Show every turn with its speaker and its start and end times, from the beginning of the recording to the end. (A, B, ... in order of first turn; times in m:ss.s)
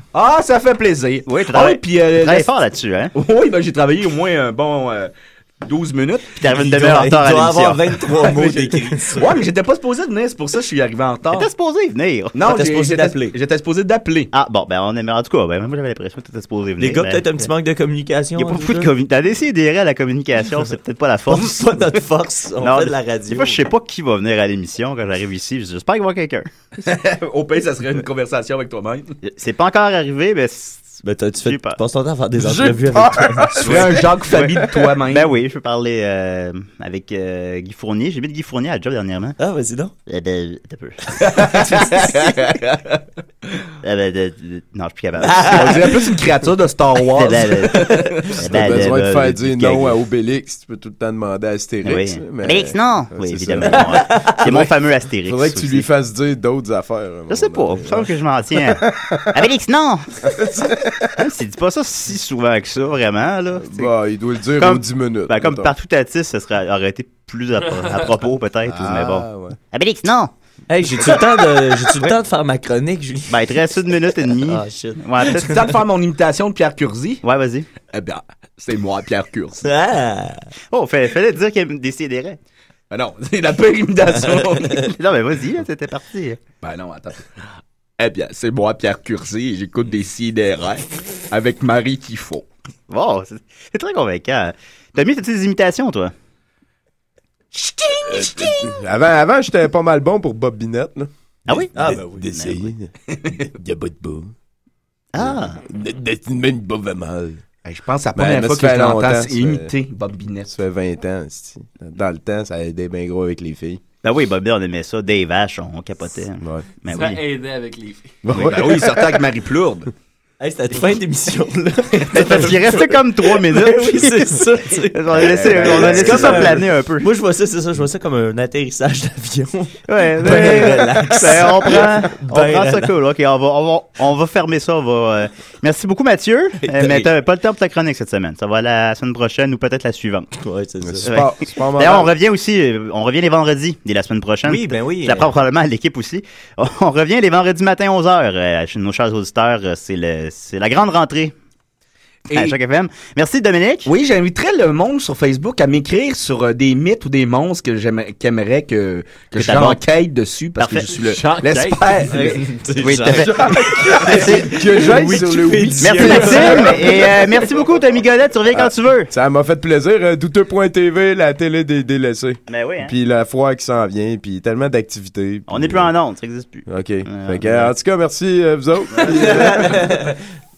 0:00.1-0:02.5 A
0:01.2-0:03.1 B
0:03.1-0:07.0 A
0:06.4-0:07.8 B
0:06.6-0:09.4 C
0:08.2-0:11.5 A
0:11.3-0:12.4 B
0:12.3-0:14.3 A
0:12.4-0:13.4 C
0:14.3-0:17.5 B
0:16.8-0:18.9 C
0:18.4-0:21.6 B
0:21.3-0:23.6 C
0:22.6-0:26.5 B
0:26.8-0:29.2 A
0:29.2-0:31.8 B
0:31.0-0:33.7 C
0:32.4-0:34.6 D
0:33.6-0:35.4 A
0:33.6-0:34.0 B
0:35.0-0:39.4 B
0:39.4-0:39.9 C
0:40.1-0:42.1 B
0:41.2-0:43.0 A
0:41.3-0:42.1 C
0:43.8-0:46.1 B
0:45.2-0:45.9 C
0:45.4-0:48.5 A
0:47.1-0:50.0 B
0:48.4-0:54.6 D
0:51.8-0:55.9 B
0:53.9-0:54.4 C
0:55.2-0:59.5 D
0:57.3-1:00.0 B
1:00.2-1:01.2 D
1:01.2-1:03.9 B
1:03.5-1:05.7 D
1:04.6-1:10.3 B
1:08.7-1:09.6 D
1:10.7-1:13.6 C
1:13.3-1:15.6 B
1:14.5-1:15.6 C
1:15.4-1:17.2 A
1:17.2-1:17.7 B
1:17.9-1:19.6 A
1:19.6-1:20.5 C
1:20.7-1:22.4 B
1:22.9-1:24.9 A
1:24.8-1:26.4 B
1:26.6-1:27.3 A
1:28.0-1:32.4 A
1:32.9-1:36.1 B
1:38.0-1:44.3 D
1:41.5-1:41.7 B
1:41.7-1:42.3 C
1:42.3-1:42.7 B
1:45.1-1:45.6 B
1:45.1-1:47.4 D
1:47.6-1:50.5 A
1:48.2-1:49.7 D
1:50.4-1:53.8 D
1:54.0-1:57.2 B
1:56.4-1:56.7 D
1:56.9-1:58.0 E
1:58.2-1:59.2 D
1:58.4-1:59.9 A
2:00.4-2:12.9 C
2:02.1-2:07.1 B
2:05.1-2:06.7 D
2:09.9-2:20.3 B
2:16.6-2:17.1 C
2:20.4-2:21.1 C
2:20.8-2:22.1 D
2:21.0-2:31.3 B
2:24.4-2:25.3 C
2:32.3-2:32.6 A
2:32.3-2:33.9 B
2:33.8-2:42.5 A
2:39.4-2:39.8 B
2:40.6-2:41.7 B
2:40.9-2:42.1 E
2:42.1-2:47.5 C
2:42.8-2:44.5 B
2:43.1-2:47.2 D
2:45.0-2:45.3 A
2:45.8-2:49.1 B
2:46.0-2:46.6 A
2:48.5-2:55.9 D
2:52.5-2:52.9 B
2:55.5-2:57.7 B
2:56.7-3:00.0 D
2:59.6-3:00.1 C